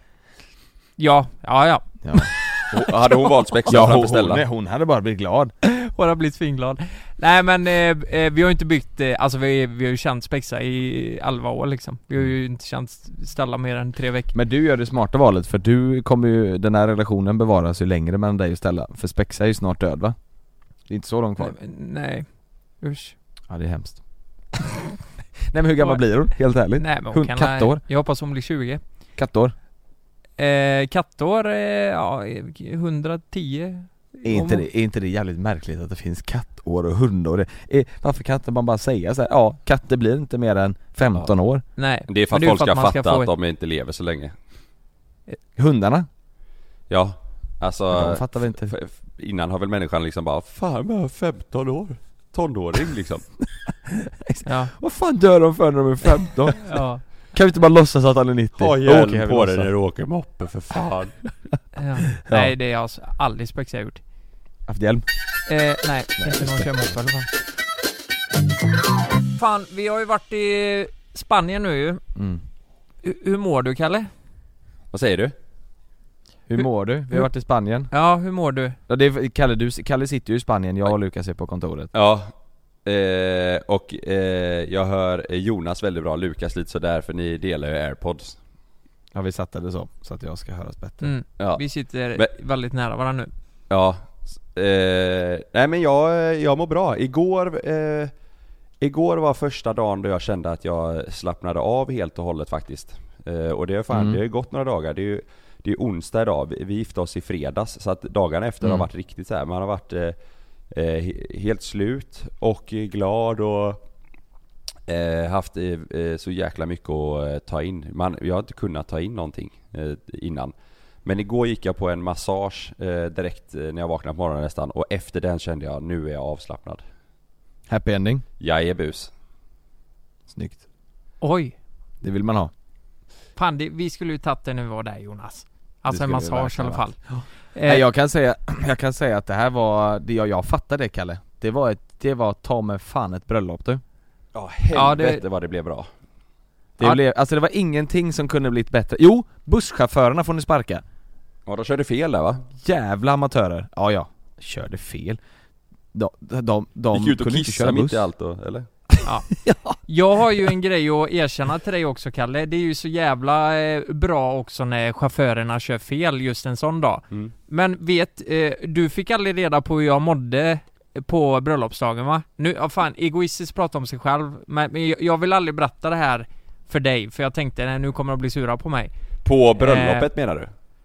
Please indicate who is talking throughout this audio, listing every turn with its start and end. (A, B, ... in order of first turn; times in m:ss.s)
0:01.0-0:02.4 A
0:02.0-0:02.3 B
0:02.7-0:04.4 C
0:03.6-0:05.5 B
0:05.6-0:14.3 A
0:14.3-0:20.2 B
0:20.9-0:21.6 B
0:21.4-0:22.2 A
0:22.8-0:23.1 A
0:23.5-0:24.0 B
0:25.5-0:27.8 B
0:26.8-0:28.8 A
0:29.2-0:29.5 B
0:30.4-0:34.6 A
0:34.2-0:41.6 B
0:41.8-0:43.3 A
0:42.1-0:44.3 C
0:45.6-0:46.1 B
0:46.9-0:53.2 C
0:47.9-0:48.7 B
0:53.7-0:59.7 B
0:54.4-0:54.7 A
0:56.6-0:57.0 A
0:58.6-1:01.2 C
1:01.7-1:04.0 A
1:02.2-1:02.5 B
1:04.7-1:05.0 B
1:05.5-1:07.3 A
1:06.2-1:06.7 B
1:09.3-1:12.0 A
1:12.1-1:12.4 B
1:13.0-1:14.1 A
1:14.9-1:15.3 C
1:16.5-1:17.9 B
1:17.9-1:18.8 A
1:18.9-1:21.9 B
1:21.9-1:22.3 C
1:22.8-1:28.4 C
1:29.1-1:31.1 B
1:31.0-1:33.3 A
1:33.7-1:38.1 C
1:38.8-1:50.2 C
1:43.9-1:44.2 B
1:48.6-1:48.9 B
1:50.7-1:53.8 C
1:54.9-2:00.5 C
2:01.0-2:06.8 C
2:07.7-2:08.2 B
2:08.4-2:09.1 C
2:10.3-2:10.6 B
2:11.2-2:11.5 A
2:12.0-2:12.5 B
2:13.4-2:17.0 A
2:15.9-2:16.8 C
2:17.5-2:17.8 A
2:17.6-2:23.8 B
2:24.3-2:25.9 C
2:24.7-2:25.2 A
2:26.8-2:30.8 B
2:31.4-2:32.4 C
2:32.6-2:35.2 B
2:35.9-2:38.0 B
2:36.9-2:38.7 C
2:39.0-2:39.8 B
2:39.8-2:58.9 A
2:59.2-3:00.5 C
2:59.6-3:00.1 A